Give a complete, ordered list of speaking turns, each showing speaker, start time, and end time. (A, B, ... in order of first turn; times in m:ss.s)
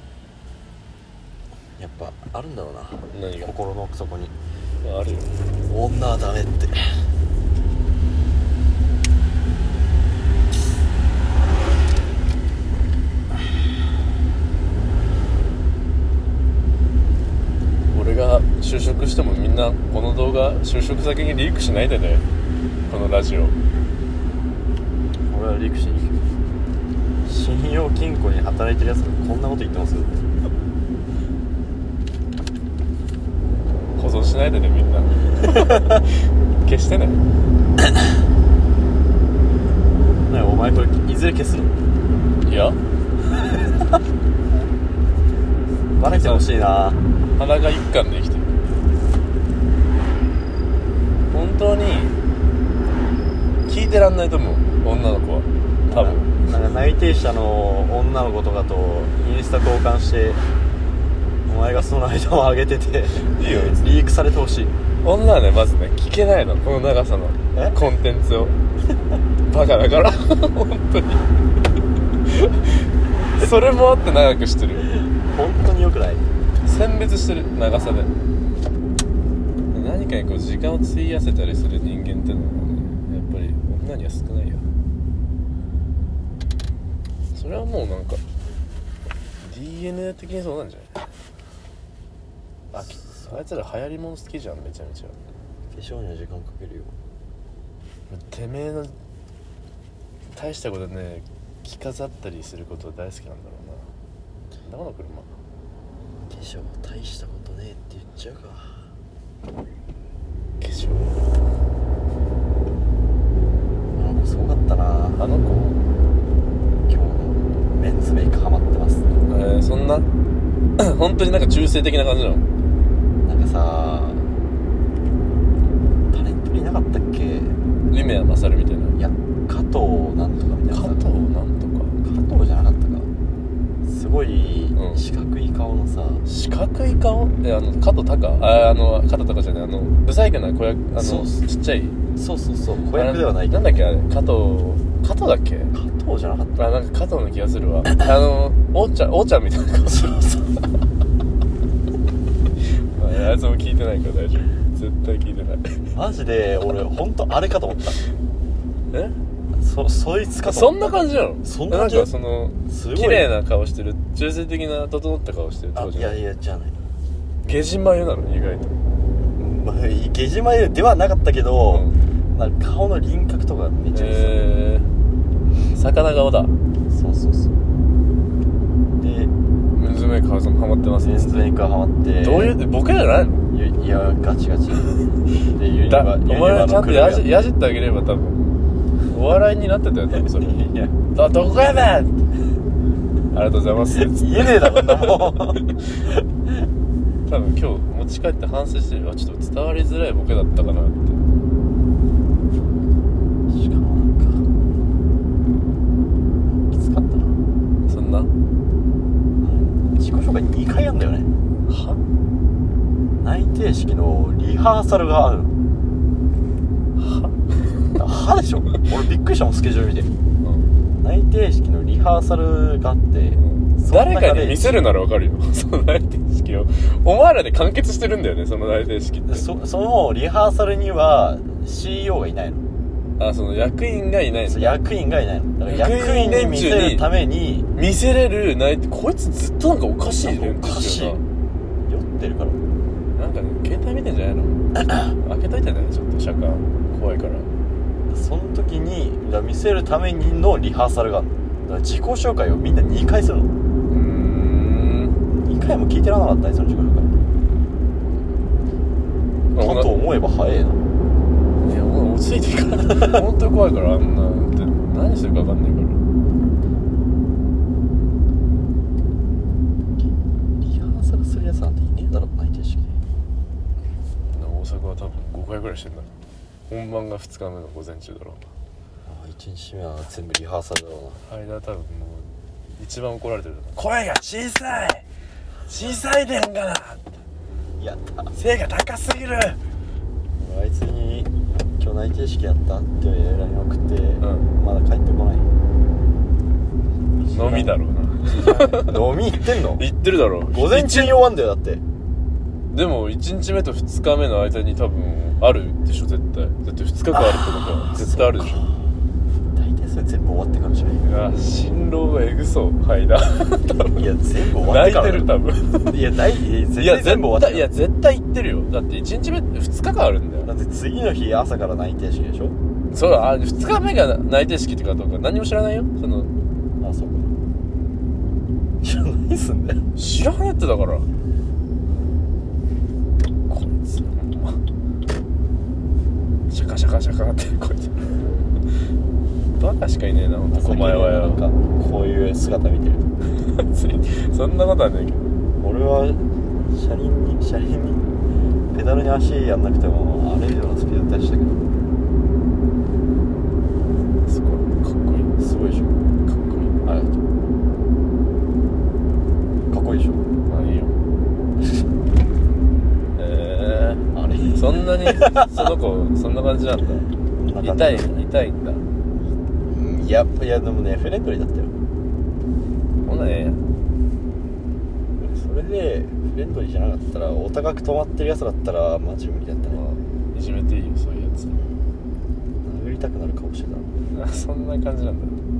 0:01.8-0:04.3 A
0:03.1-0:03.5 B
0:04.8-0:05.3 B
0:05.7-0:07.0 A
0:17.9-0:22.2 B
0:22.9-0:23.6 B
0:25.3-0:26.3 A
0:27.2-0:30.3 A
0:34.0-0:37.2 B
0:40.3-0:41.8 A
0:42.4-0:42.8 B
0:43.3-0:43.9 A
0:46.0-0:47.0 A
0:46.0-0:46.5 B
0:47.4-0:48.6 B
0:51.3-0:52.2 B
0:53.7-0:56.4 B
0:55.9-1:00.4 A
1:01.5-1:04.7 A
1:03.3-1:04.0 B
1:05.0-1:08.6 B
1:07.5-1:07.8 A
1:09.5-1:11.3 B
1:12.3-1:14.9 B
1:15.1-1:16.3 A
1:16.6-1:18.1 B
1:19.7-1:24.7 B
1:27.3-1:28.2 B
1:29.4-1:31.1 B
1:32.7-1:35.2 B
1:32.8-1:33.6 A
1:35.7-1:37.0 A
1:38.1-1:39.0 B
1:40.3-1:43.9 B
1:44.6-1:45.3 B
1:46.3-1:48.9 A
1:50.6-1:51.2 B
1:53.9-1:55.2 A
1:55.2-1:55.8 B
1:56.9-1:59.1 A
1:59.2-2:00.1 B
2:00.8-2:02.5 B
2:03.2-2:04.3 A
2:06.1-2:07.6 A
2:07.9-2:09.0 B
2:09.0-2:11.0 A
2:10.7-2:12.0 B
2:12.0-2:13.1 A
2:13.9-2:16.2 A
2:14.8-2:15.0 B
2:16.2-2:22.0 B
2:21.0-2:21.4 A
2:22.2-2:23.9 A
2:22.9-2:25.8 B
2:25.7-2:26.7 A
2:26.6-2:30.3 B
2:29.9-2:30.5 A
2:32.8-2:35.8 B
2:35.9-2:38.0 A
2:39.5-2:42.1 A
2:40.4-2:46.2 B
2:42.7-2:43.3 A
2:45.8-2:46.8 A
2:47.4-2:48.8 B
2:49.4-2:54.4 A
2:51.7-2:52.0 B
2:53.9-2:54.9 B
2:55.7-2:56.6 B
2:56.9-2:57.6 A
2:59.0-2:59.3 A
2:59.8-3:01.5 B
3:01.0-3:02.6 A
3:02.2-3:03.4 B
3:03.5-3:07.3 A
3:05.9-3:12.2 B
3:10.2-3:11.0 A
3:13.3-3:15.8 B
3:13.9-3:16.2 A
3:17.3-3:21.2 B
3:23.5-3:24.5 A
3:26.5-3:27.4 A
3:27.9-3:28.3 B
3:29.4-3:31.3 A
3:31.7-3:32.0 B
3:33.2-3:35.5 A
3:37.0-3:38.0 B
3:38.0-3:40.1 A
3:40.4-3:40.7 B
3:41.0-3:44.8 A
3:43.4-3:49.5 B
3:49.3-3:52.6 A
3:53.2-3:54.8 B
3:54.5-3:57.7 A
3:55.6-3:57.1 B
3:57.8-4:01.2 B
4:00.0-4:01.2 A
4:01.9-4:02.6 A
4:03.2-4:07.5 B
4:08.1-4:13.5 A
4:13.9-4:15.2 B
4:15.3-4:17.1 A
4:19.6-4:19.9 B
4:19.6-4:20.8 A
4:21.6-4:26.0 B
4:30.6-4:32.9 A
4:34.3-4:36.1 B
4:36.7-4:38.5 B
4:39.0-4:41.2 A
4:41.2-4:45.0 B
4:45.7-4:47.2 B
4:47.8-4:48.3 A
4:48.3-4:49.6 B
4:50.4-4:55.5 A
4:54.2-4:54.5 B
4:57.1-4:57.8 A
4:57.3-5:01.2 B
4:58.3-4:59.8 A
5:00.5-5:01.8 A
5:02.7-5:08.7 B
5:07.1-5:09.0 A
5:09.6-5:11.0 A
5:11.0-5:14.1 B
5:13.7-5:15.3 A
5:14.6-5:16.0 B
5:15.9-5:17.7 A
5:16.8-5:20.5 B
5:20.4-5:22.6 A
5:22.9-5:26.3 B
5:26.8-5:27.3 A
5:28.8-5:29.9 A
5:30.0-5:31.1 B
5:33.5-5:34.6 B
5:36.5-5:38.2 B
5:39.6-5:41.4 B
5:40.5-5:43.1 A
5:43.4-5:45.3 B
5:45.6-5:48.0 A
5:48.7-5:51.6 A
5:54.2-5:55.4 B
5:55.4-5:56.0 A
5:56.2-5:57.2 B
5:59.7-6:00.3 A
6:00.4-6:01.0 B
6:03.2-6:07.1 B
6:04.1-6:05.8 A
6:07.4-6:08.1 A
6:07.6-6:08.9 B
6:09.7-6:11.7 A
6:13.0-6:13.6 B
6:15.2-6:19.8 A
6:19.7-6:21.6 B
6:22.6-6:23.9 A
6:24.1-6:25.4 B